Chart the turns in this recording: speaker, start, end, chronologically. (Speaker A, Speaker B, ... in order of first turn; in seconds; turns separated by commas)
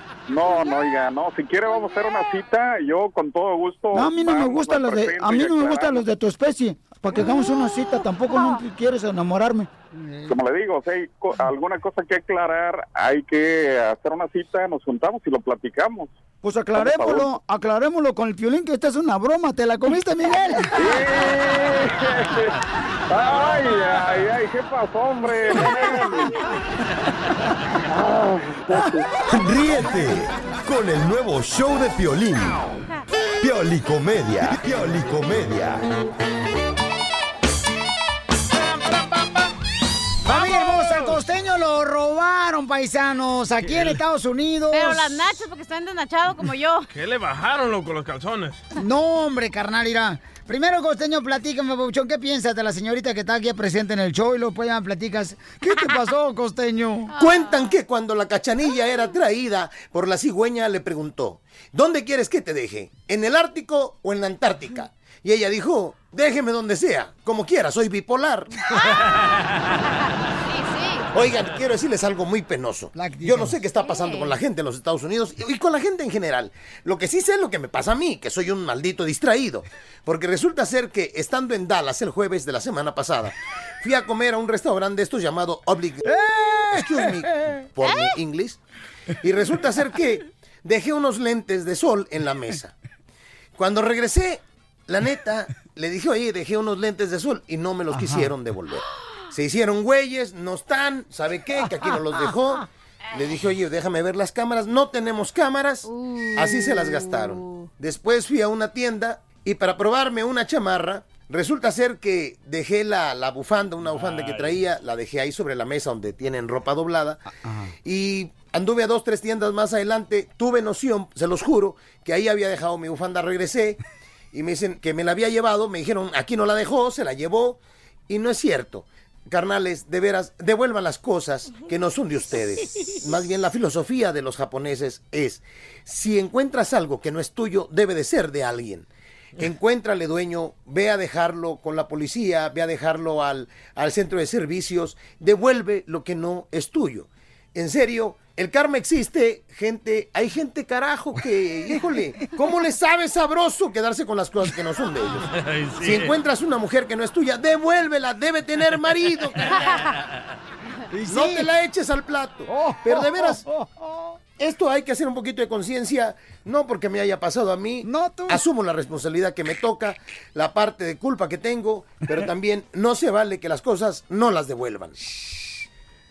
Speaker A: 0.3-6.0, Speaker B: 3.9-10.4, Speaker A: 10.3-16.2, Speaker B: 16.4-21.0, Speaker A: 16.8-17.3, Speaker A: 20.8-22.6, Speaker A: 23.1-26.4, Speaker A: 27.9-29.0, Speaker C: 29.3-32.6, Speaker C: 33.4-35.9, Speaker D: 38.7-39.4, Speaker B: 40.2-45.4, Speaker D: 43.6-44.0, Speaker E: 44.7-46.9, Speaker D: 46.9-48.6, Speaker B: 48.8-57.1, Speaker E: 57.1-57.8, Speaker F: 57.2-68.8, Speaker E: 68.7-69.0, Speaker E: 70.5-71.1, Speaker F: 71.1-86.1, Speaker B: 73.0-73.6, Speaker E: 73.8-74.4, Speaker B: 86.1-87.5, Speaker F: 86.7-88.6, Speaker E: 87.8-88.2, Speaker F: 89.2-92.7, Speaker F: 93.6-117.2, Speaker B: 97.9-98.3, Speaker E: 105.8-107.7, Speaker D: 113.9-114.6, Speaker B: 117.4-117.7, Speaker F: 117.8-123.8, Speaker F: 124.3-138.9, Speaker F: 139.4-159.6, Speaker D: 155.3-156.1, Speaker E: 159.5-159.8, Speaker B: 160.9-161.5, Speaker F: 161.1-163.4, Speaker B: 162.5-164.2, Speaker F: 164.4-175.0, Speaker B: 167.8-168.4, Speaker B: 175.1-175.6